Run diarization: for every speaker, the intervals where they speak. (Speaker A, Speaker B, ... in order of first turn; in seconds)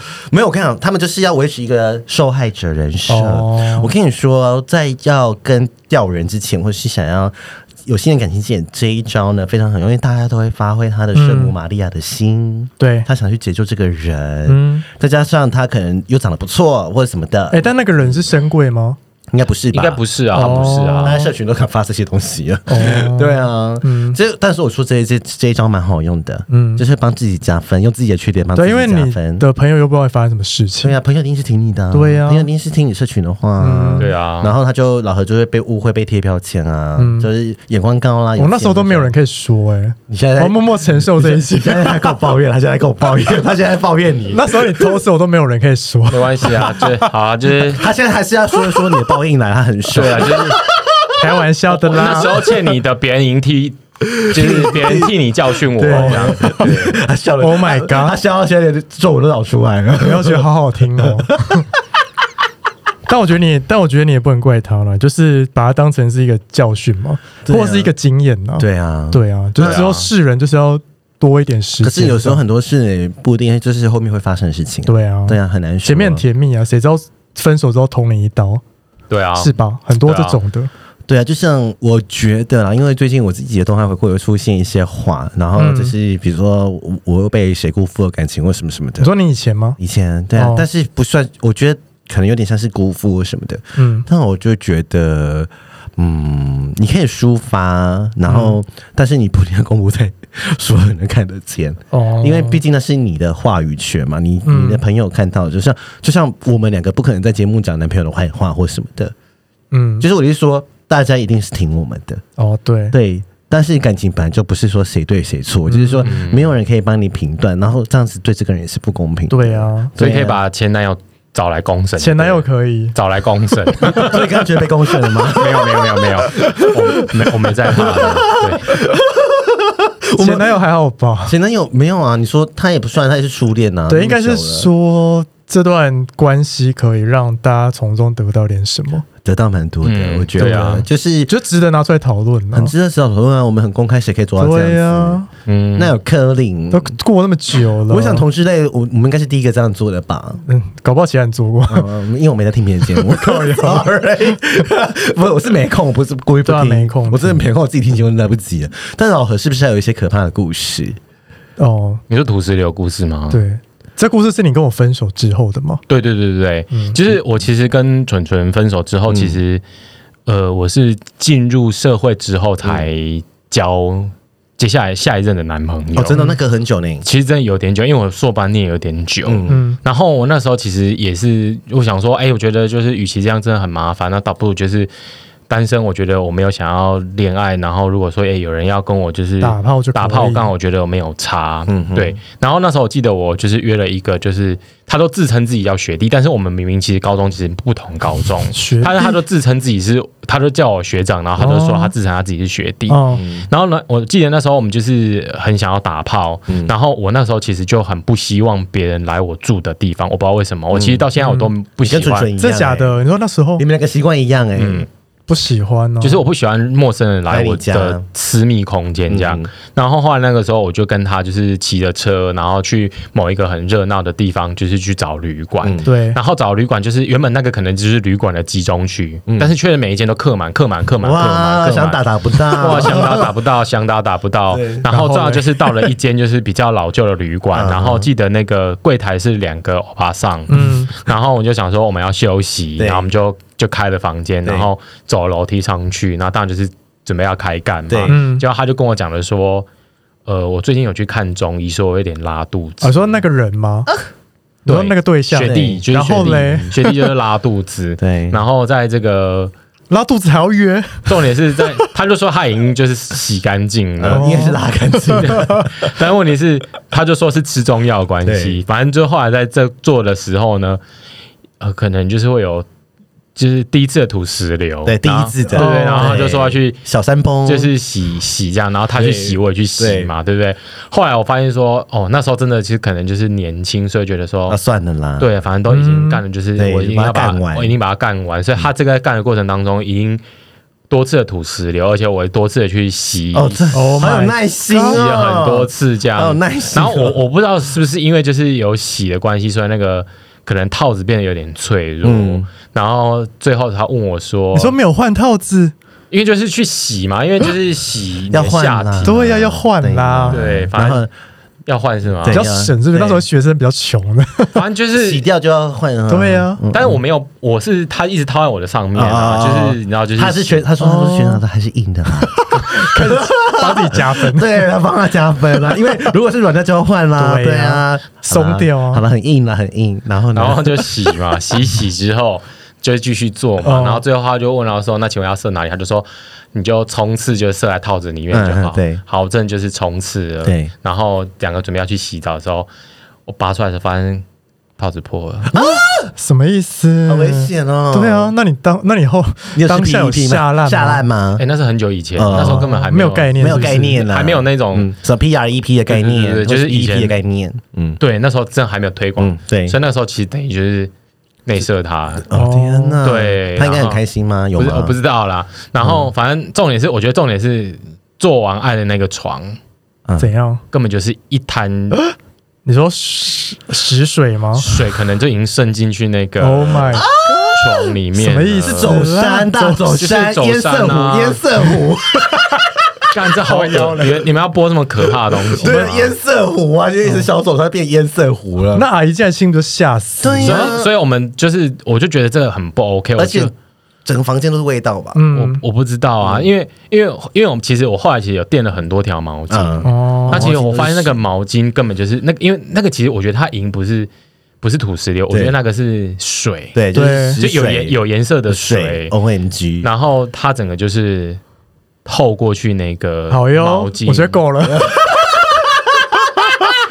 Speaker A: 0.3-18.3, 19.3-29.4, 30.8-39.1, 40.1-45.0, 47.8-51.0, 51.7-52.7, 54.0-55.1, 55.8-60.5, 61.0-61.6, 67.4-67.9, 68.6-70.0, 71.8-76.2, 81.1-89.1, 89.8-109.1, 110.0-112.2, 112.9-120.4, 123.8-130.6, 131.2-134.7, 139.2-141.3, 142.5-145.2, 145.7-146.9, 147.8-150.4, 151.7-161.0, 169.1-169.4, 172.6-172.9, 175.9-177.1, 179.2-179.6, 191.7-192.2, 203.2-203.4, 206.5-206.7, 210.7-211.1, 211.8-213.0, 213.6-214.9, 217.3-218.0, 219.1-219.5, 225.6-225.9, 229.3-229.5, 231.0-233.2, 234.5-234.9, 237.5-238.1, 242.8-243.1, 244.4-244.7, 247.9-248.2, 255.4-255.8, 258.0-258.4, 264.0-265.7, 268.2-268.6, 274.9-277.7, 278.9-280.1, 284.5-285.3, 286.6-287.7, 293.3-297.2, 302.0-302.5, 308.3-311.1, 312.2-313.2, 314.9-317.0, 318.9-331.2, 338.3-339.0, 340.4-340.7, 345.5-346.1, 347.1-348.4, 349.5-351.4, 352.1-358.0, 359.2-359.8, 362.2-365.0, 365.8-366.1, 370.1-370.3, 377.2-377.5, 378.7-382.5, 385.5-388.9, 390.2-390.9, 393.2-393.5, 394.0-395.2, 396.2-396.5, 399.5-401.2, 405.3-405.6, 406.7-409.9, 414.7-415.9
Speaker B: 3.1-3.9, 11.1-11.6, 12.8-13.1, 14.5-14.8, 17.5-19.0, 20.3-21.3, 22.7-24.2, 26.5-26.8, 28.5-30.9, 31.9-32.5, 33.6-34.1, 37.0-37.3, 38.4-42.2, 44.3-47.1, 51.2-52.4, 55.8-56.8, 57.4-58.2, 60.0-61.6, 63.0-72.4, 74.8-78.6, 79.4-80.7, 85.6-85.9, 89.0-89.8, 90.3-90.7, 93.8-94.0, 98.3-98.6, 101.9-102.6, 104.5-104.8, 109.7-110.0, 112.4-112.9, 115.7-116.1, 119.3-119.9, 122.0-122.9, 123.8-124.1, 130.2-131.3, 133.9-139.0, 140.4-142.7, 144.4-145.3, 146.7-148.2, 150.4-151.9, 152.9-153.9, 156.4-157.4, 161.6-162.0, 163.3-165.8, 166.7-167.0, 179.5-179.8, 189.4-190.5, 198.5-199.2, 201.4-201.9, 202.9-203.2, 211.2-211.5, 212.4-213.6, 215.3-216.2, 225.8-226.2, 234.9-235.5, 240.5-240.9, 248.1-248.4, 252.8-253.9, 254.7-256.9, 259.9-261.8, 264.1-264.6, 265.3-265.6, 275.5-276.2, 285.7-286.2, 293.7-294.4, 304.5-305.7, 309.0-310.4, 312.3-314.6, 316.1-316.6, 320.8-321.4, 322.2-324.6, 327.2-329.0, 333.6-334.0, 345.5-351.0, 352.4-354.0, 362.3-363.0, 370.2-370.6, 372.6-374.8, 376.4-377.6, 378.1-380.0, 383.4-384.2, 385.6-386.1, 387.0-387.3, 388.7-390.8, 395.1-395.6, 399.8-400.6, 406.9-407.4, 413.3-415.0
Speaker C: 19.7-21.2, 34.0-34.5, 46.1-47.9, 49.9-50.6, 51.9-57.0, 69.6-70.1, 79.1-80.4, 116.0-116.5, 120.0-124.1, 125.3-128.8, 139.8-140.8, 145.4-146.0, 162.1-163.4, 165.9-169.6, 170.2-176.3, 177.0-184.9, 185.5-212.3, 214.6-214.9, 216.0-249.7, 250.2-253.2, 254.7-259.5, 261.1-264.5, 265.1-270.8, 271.6-272.6, 273.4-276.8, 277.4-284.6, 285.2-290.2, 290.9-294.2, 294.7-304.8, 306.1-309.1, 310.3-311.1, 311.7-312.4, 314.5-315.2, 316.7-320.6, 330.3-342.7, 343.3-344.2, 344.8-345.5, 351.4-354.9, 355.9-357.1, 358.0-360.9, 361.4-362.3, 363.0-364.0, 364.6-369.6, 370.7-372.0, 374.6-379.1, 379.9-381.4, 383.1-386.1, 390.4-393.5, 395.3-404.1, 404.6-406.8, 407.4-409.1, 409.8-411.4, 412.1-414.4